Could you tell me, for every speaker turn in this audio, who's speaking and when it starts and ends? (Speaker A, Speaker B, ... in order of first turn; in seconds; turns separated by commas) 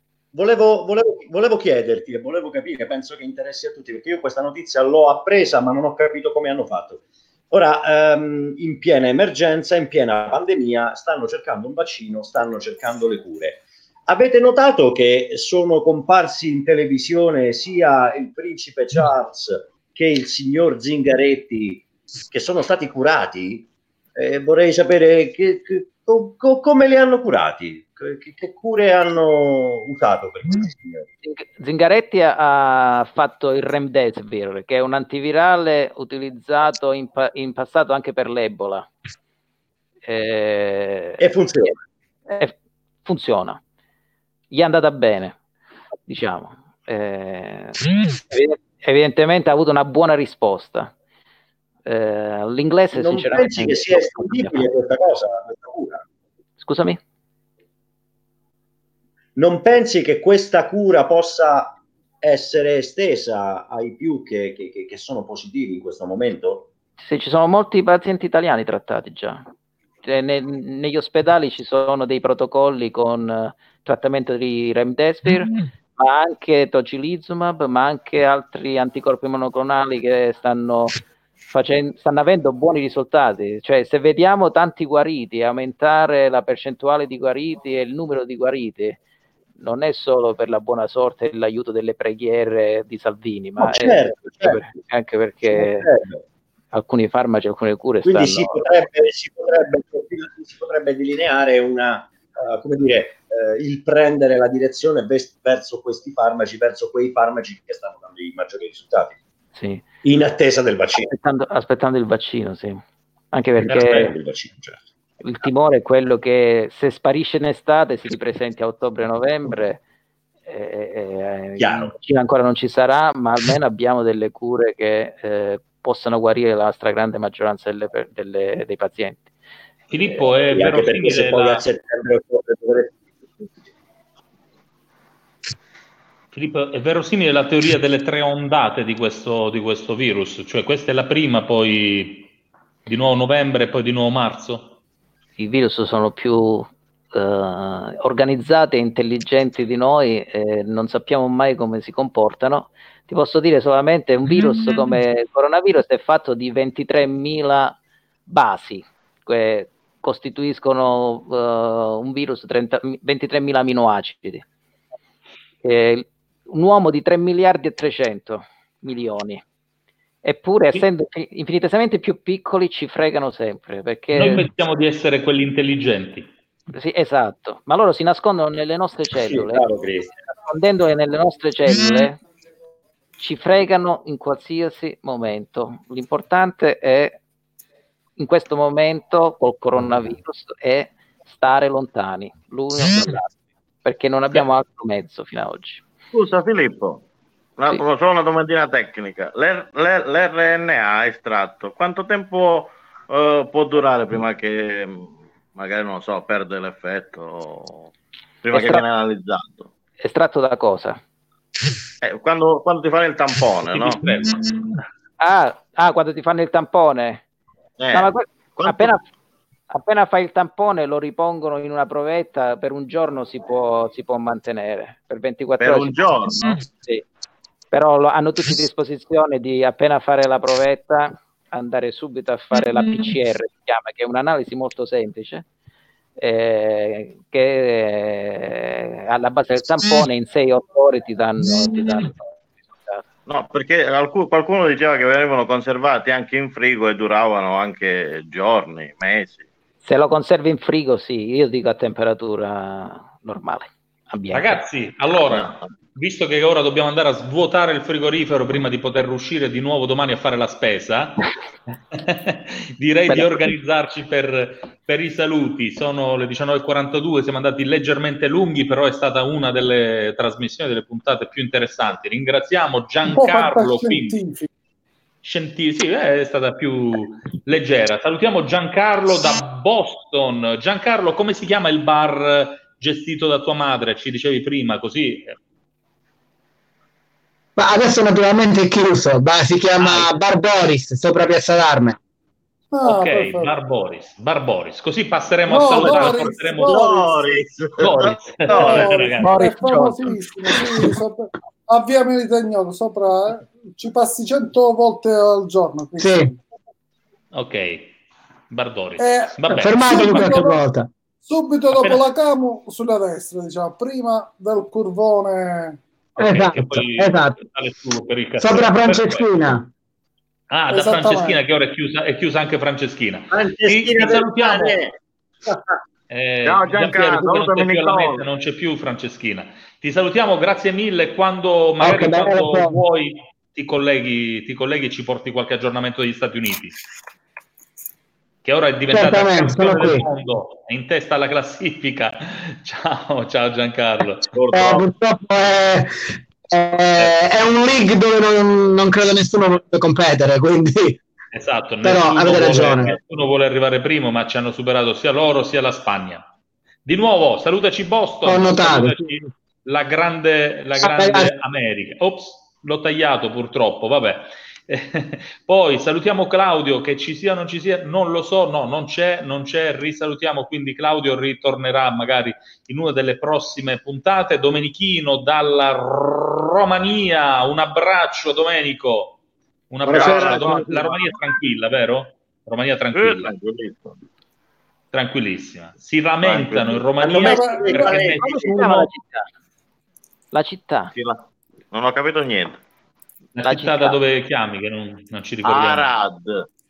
Speaker A: 0.3-31.1, Speaker B: 31.2-38.9, Speaker B: 40.1-41.8, Speaker A: 41.2-41.8, Speaker B: 42.3-42.5, Speaker B: 43.0-43.6, Speaker B: 44.5-45.4, Speaker B: 46.1-50.9, Speaker B: 51.9-54.7, Speaker A: 53.0-56.0, Speaker B: 56.6-57.0, Speaker A: 59.4-66.7, Speaker B: 67.0-69.5, Speaker B: 70.0-81.0, Speaker B: 81.5-89.0, Speaker B: 89.6-95.9, Speaker A: 93.6-94.7, Speaker A: 95.5-96.2, Speaker B: 96.7-98.7, Speaker A: 98.0-109.2, Speaker B: 109.5-109.8, Speaker A: 110.0-111.1, Speaker B: 111.0-114.1, Speaker A: 113.6-114.8, Speaker C: 113.7-114.1, Speaker B: 115.2-119.8, Speaker B: 120.5-129.3, Speaker A: 121.6-122.0, Speaker C: 129.9-131.7, Speaker A: 130.2-132.9, Speaker C: 136.3-142.3, Speaker C: 142.9-144.8, Speaker B: 145.4-157.8, Speaker B: 158.3-164.4, Speaker B: 165.6-169.4, Speaker B: 170.2-174.5, Speaker C: 174.2-176.3, Speaker B: 176.7-182.2, Speaker A: 179.1-180.1, Speaker B: 183.2-187.2, Speaker B: 188.2-193.3, Speaker B: 193.8-195.8, Speaker D: 196.1-197.0, Speaker D: 197.6-207.9, Speaker D: 208.4-209.7, Speaker B: 208.5-208.8, Speaker B: 210.0-211.0, Speaker D: 212.0-214.0, Speaker C: 213.7-214.4, Speaker B: 215.2-217.2, Speaker D: 217.8-218.9, Speaker B: 217.9-219.0, Speaker B: 219.7-227.0, Speaker D: 225.6-226.6, Speaker B: 227.7-235.4, Speaker B: 236.2-242.3, Speaker B: 242.8-243.0, Speaker D: 243.3-249.4, Speaker B: 249.8-254.6, Speaker C: 254.3-261.2, Speaker D: 255.3-255.6, Speaker C: 261.9-274.2, Speaker B: 263.1-263.5, Speaker E: 273.1-274.5, Speaker C: 275.2-285.4, Speaker F: 287.6-292.0, Speaker C: 289.8-290.1, Speaker E: 292.7-293.6, Speaker C: 292.8-296.8, Speaker E: 295.5-297.2, Speaker A: 295.7-296.0, Speaker A: 296.7-298.7, Speaker C: 297.8-300.2, Speaker E: 298.5-306.4, Speaker D: 298.5-299.1, Speaker F: 299.2-300.1, Speaker F: 306.0-306.3, Speaker C: 307.3-307.9, Speaker C: 308.5-310.3, Speaker E: 309.0-310.6, Speaker F: 309.5-310.9, Speaker E: 311.2-315.8, Speaker C: 311.7-312.0, Speaker F: 316.2-317.4, Speaker C: 316.2-319.3, Speaker F: 318.4-319.7, Speaker C: 320.5-324.8, Speaker E: 320.7-321.4, Speaker A: 323.3-324.6, Speaker D: 324.1-324.8, Speaker C: 326.1-336.8, Speaker D: 326.4-328.2, Speaker F: 331.8-332.8, Speaker C: 338.4-344.8, Speaker F: 338.9-340.1, Speaker F: 344.5-351.0, Speaker C: 351.3-356.2, Speaker F: 351.8-352.9, Speaker C: 356.9-379.2, Speaker F: 358.2-359.1, Speaker F: 360.8-361.3, Speaker C: 379.7-383.4, Speaker D: 379.9-381.0, Speaker D: 382.9-383.9, Speaker C: 384.9-388.5, Speaker D: 386.2-386.9, Speaker A: 387.0-388.9, Speaker E: 387.1-388.1, Speaker B: 388.2-389.2, Speaker B: 390.3-390.9, Speaker D: 390.9-391.2, Speaker D: 391.7-392.6, Speaker C: 393.4-395.9, Speaker B: 393.4-394.0, Speaker D: 395.4-396.4